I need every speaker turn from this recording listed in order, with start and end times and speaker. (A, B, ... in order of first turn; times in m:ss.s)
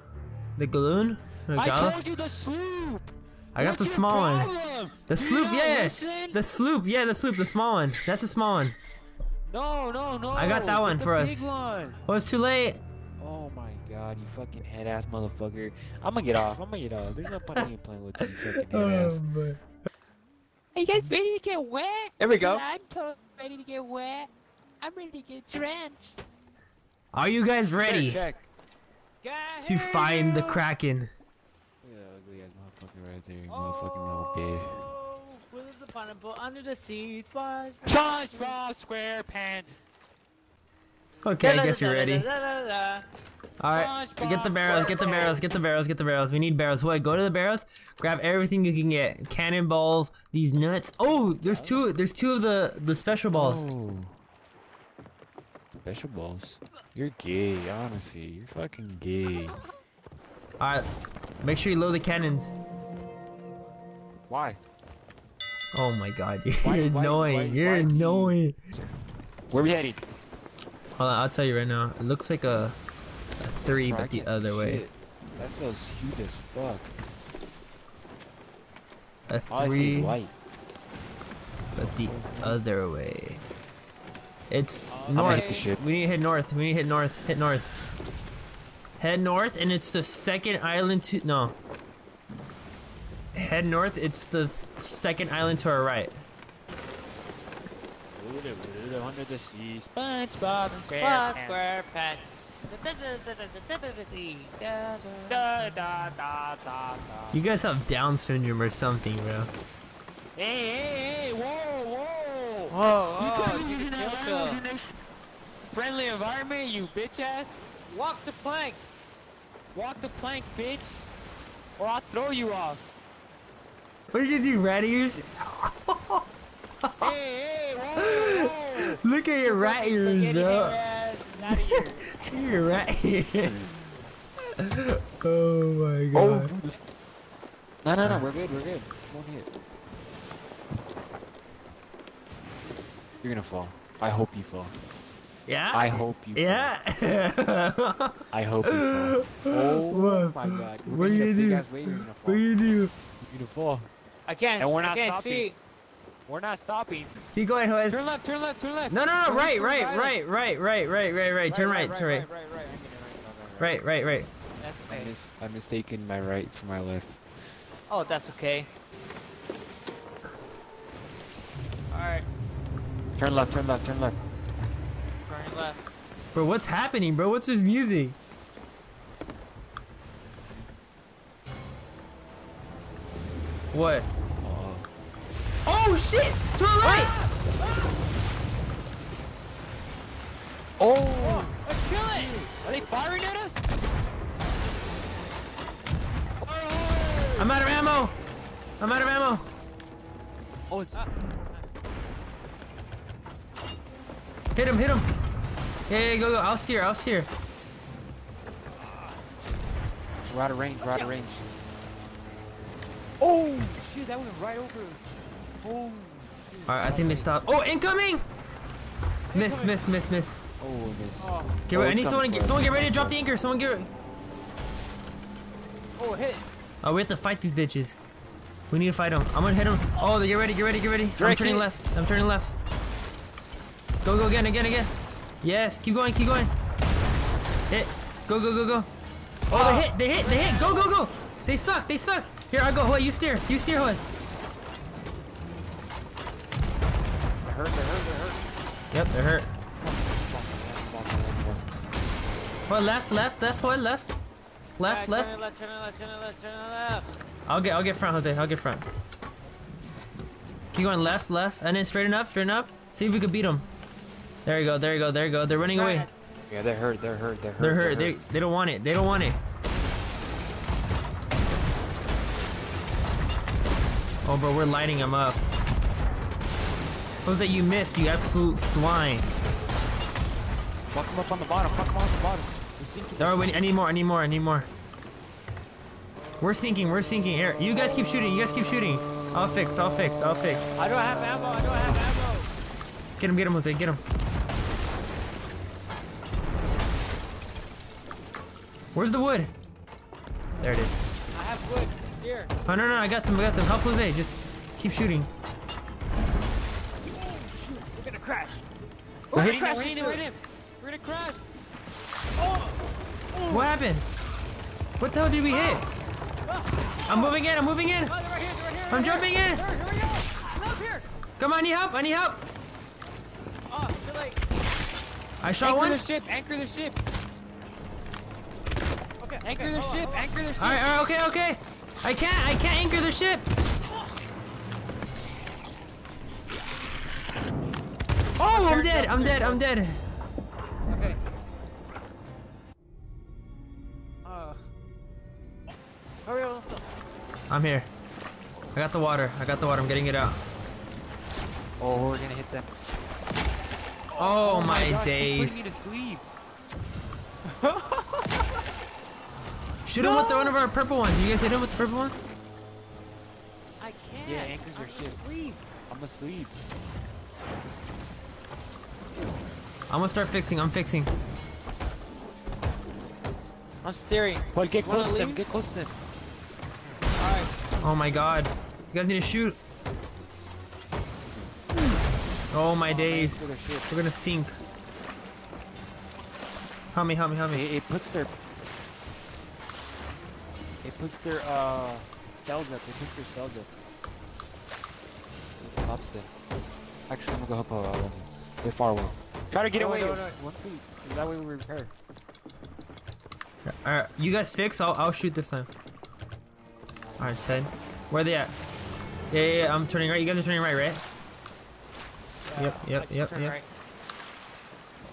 0:00.6-0:02.0 A
0:01.5-0:06.4 B
0:03.5-0:04.5 A
0:05.1-0:08.8 A
0:09.5-0:12.0 B
0:10.3-0:11.5 A
0:12.0-0:12.8 A
0:13.2-0:19.4 B
0:18.2-0:19.6 A
0:20.7-0:24.3 B
0:22.2-0:22.6 C
0:24.8-0:26.2 B
0:27.1-0:28.2 A
0:27.8-0:28.5 B
0:29.2-0:30.6 C
0:29.6-0:31.1 A
0:31.8-0:34.9 B
0:33.5-0:38.5 C
0:37.8-0:39.8 B
0:41.2-0:42.3 A
0:41.4-0:43.0 C
0:43.6-0:53.6 A
0:43.7-0:45.4 B
0:51.4-0:51.8 B
0:53.3-0:54.2 B
0:55.7-0:59.6 B
1:00.6-1:00.8 A
1:01.4-1:02.5 A
1:04.3-1:04.6 B
1:05.7-1:08.6 A
1:06.6-1:08.9 B
1:09.5-1:10.0 B
1:11.0-1:12.8 A
1:13.4-1:14.8 A
1:13.9-1:16.9 B
1:19.3-1:20.2 A
1:19.5-1:20.3 B
1:21.7-1:23.4 A
1:22.1-1:22.6 B
1:24.5-1:27.7 A
1:24.9-1:25.8 B
1:25.1-1:25.7 C
1:29.0-1:31.5 A
1:33.3-1:36.2 A
1:38.1-1:41.6 B
1:41.0-1:45.4 C
1:45.3-1:47.4 B
1:47.3-1:49.5 A
1:50.3-1:55.0 B
1:52.7-1:54.6 C
1:55.7-1:57.6 B
1:57.9-1:58.8 C
1:59.7-2:01.1 B
2:01.8-2:02.8 B
2:04.1-2:06.2 A
2:06.8-2:07.1 A
2:07.0-2:12.0 B
2:08.0-2:10.8 A
2:11.5-2:13.6 A
2:14.6-2:16.5 A
2:16.1-2:16.8 B
2:17.8-2:19.5 B
2:23.2-2:24.8 B
2:25.5-2:32.9 A
2:25.7-2:26.7 B
2:28.3-2:32.5 B
2:33.2-2:33.9 B
2:34.3-2:35.6 C
2:34.6-2:35.5 B
2:36.2-2:37.1 B
2:37.2-2:38.0 A
2:37.9-2:40.2 B
2:38.9-2:42.3 A
2:41.5-2:42.7 C
2:41.6-2:43.8 B
2:43.6-2:44.3 A
2:44.6-2:45.1 C
2:44.9-2:47.2 B
2:47.9-2:48.7 C
2:51.9-2:52.2 C
2:53.1-2:54.2 B
2:55.3-2:55.8 C
2:56.3-2:58.2 A
3:03.7-3:04.1 A
3:04.4-3:04.9 B
3:05.6-3:07.1 A
3:06.8-3:07.9 C
3:10.8-3:13.6 B
3:11.2-3:12.3 C
3:16.4-3:17.6 B
3:17.4-3:18.1 A
3:18.8-3:19.5 A
3:20.7-3:21.0 B
3:20.9-3:21.6 C
3:24.5-3:25.1 A
3:25.9-3:27.3 A
3:30.3-3:31.5 B
3:30.8-3:31.1 C
3:33.2-3:35.0 B
3:35.6-3:37.5 B
3:36.7-3:38.2 A
3:39.3-3:39.8 C
3:39.3-3:40.4 A
3:40.6-3:43.2 B
3:41.2-3:41.6 C
3:41.7-3:43.9 A
3:46.0-3:46.4 C
3:46.8-3:48.0 A
3:48.7-3:52.5 A
3:51.2-3:51.7 B
3:54.0-3:54.9 A
3:55.4-3:56.5 A
3:57.7-3:58.9 A
3:59.5-4:04.0 A
3:59.5-4:00.9 C
4:07.4-4:08.4 B
4:08.9-4:09.5 A
4:09.8-4:11.7 B
4:12.7-4:14.2 A
4:14.8-4:15.3 A
4:14.8-4:17.1 C
4:17.4-4:18.8 A
4:20.7-4:23.7 A
4:24.4-4:26.1 A
4:25.7-4:26.1 C
4:26.4-4:28.1 B
4:27.6-4:29.4 A
4:34.2-4:35.4 A
4:37.2-4:39.3 A
4:40.9-4:43.7 B
4:43.2-4:44.7 A
4:46.4-4:50.6 A
4:50.8-4:52.5 C
4:53.2-4:54.0 A
4:58.9-4:59.5 A
5:00.6-5:01.0 A
5:01.3-5:02.5 C
5:02.6-5:05.3 A
5:07.1-5:08.6 C
5:09.3-5:10.2 C
5:09.3-5:11.4 B
5:12.4-5:13.7 C
5:13.5-5:14.0 A
5:15.0-5:15.9 A
5:16.5-5:17.3 C
5:17.0-5:18.1 A
5:18.0-5:21.1 C
5:18.9-5:19.6 A
5:21.4-5:22.4 A
5:23.7-5:24.4 C
5:25.4-5:26.0 A
5:25.6-5:27.0 B
5:29.2-5:30.3 C
5:29.4-5:30.9 B
5:30.6-5:33.4 A
5:38.4-5:39.6 C
5:38.4-5:40.0 A
5:40.9-5:41.2 C
5:44.2-5:44.6 C
5:46.2-5:46.9 C
5:47.5-5:47.9 A
5:48.7-5:50.4 A
5:51.8-5:52.7 B
5:54.2-5:55.6 A
5:54.3-5:56.2 B
5:57.4-5:58.5 C
5:59.8-6:02.2 A
6:00.0-6:00.5 C
6:03.8-6:05.6 C
6:04.2-6:05.2 B
6:05.9-6:06.6 B
6:09.9-6:11.1 A
6:13.8-6:15.4 C
6:14.5-6:16.0 B
6:17.2-6:17.5 C
6:17.8-6:19.6 A
6:21.2-6:21.5 B
6:22.5-6:24.6 A
6:22.8-6:23.9 B
6:26.9-6:27.6 A
6:27.5-6:28.3 B
6:30.8-6:33.7 B
6:35.5-6:36.3 B
6:37.1-6:41.9 B
6:39.7-6:40.3 C
6:43.6-6:45.7 A
6:47.2-6:48.5 A
6:49.3-6:51.0 A
6:52.5-6:53.7 C
6:52.6-6:53.6 A